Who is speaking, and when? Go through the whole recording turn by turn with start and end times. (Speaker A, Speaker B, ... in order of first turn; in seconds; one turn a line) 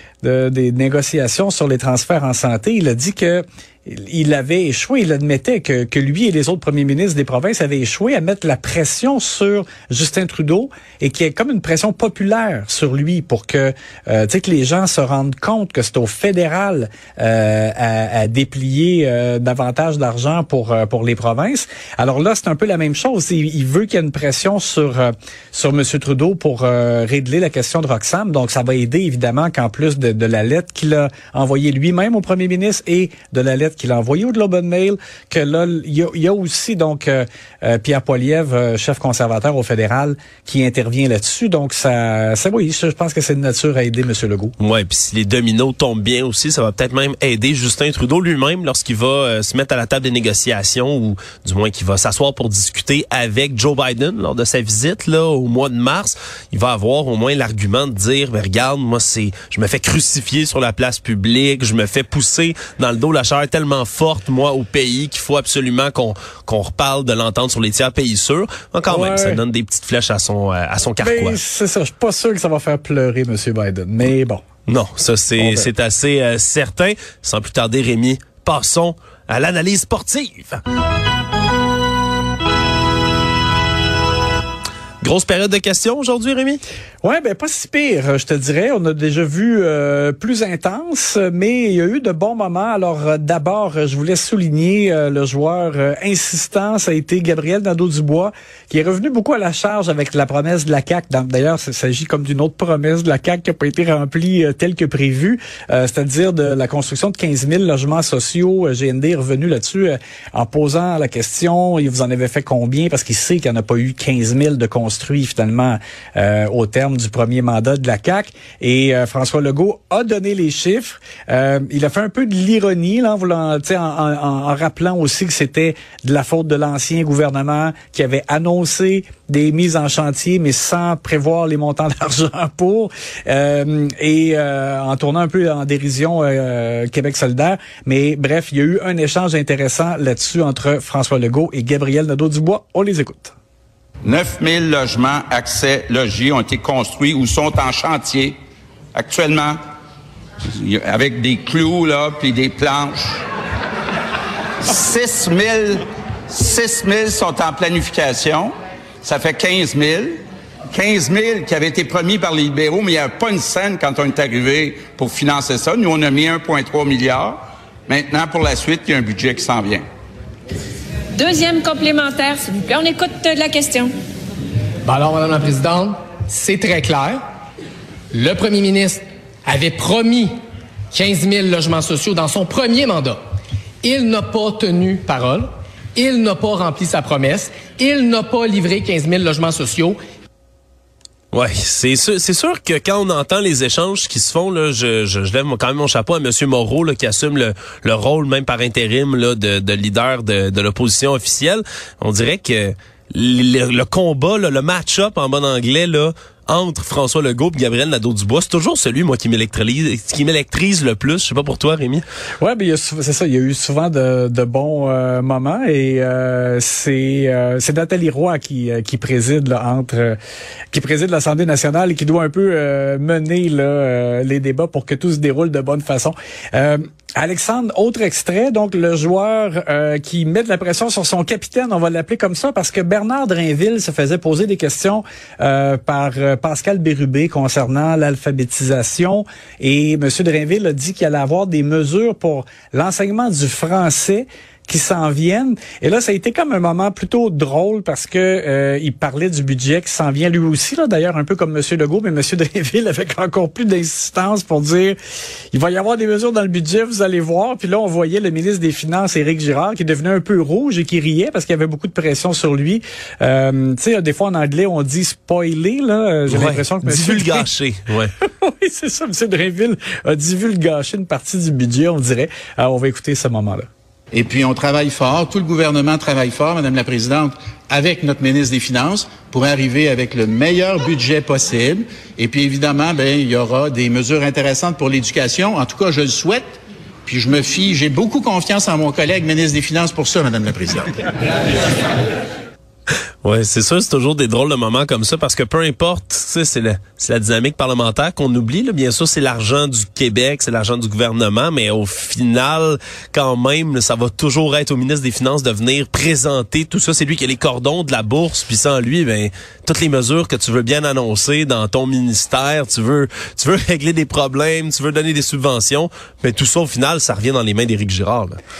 Speaker A: 0.2-44.5
Speaker B: 44.6-71.4
Speaker A: 68.9-69.4
Speaker A: 71.0-74.4
Speaker B: 74.7-80.6
Speaker A: 75.4-75.7
Speaker B: 85.0-86.6
Speaker A: 87.0-143.3
Speaker C: 144.0-148.3
Speaker C: 148.9-149.6
Speaker C: 150.4-153.2
Speaker C: 154.6-160.2
Speaker C: 160.7-169.8
Speaker D: 171.1-173.9
Speaker E: 174.8-177.2
Speaker E: 178.1-180.4
Speaker E: 180.9-183.2
Speaker E: 183.8-190.0
Speaker B: 191.3-212.0
Speaker A: 212.4-220.2
Speaker A: 220.7-255.0
Speaker A: 255.5-267.5
Speaker B: 266.3-268.1
Speaker A: 268.2-273.7
Speaker F: 274.1-290.9
Speaker B: 293.2-318.4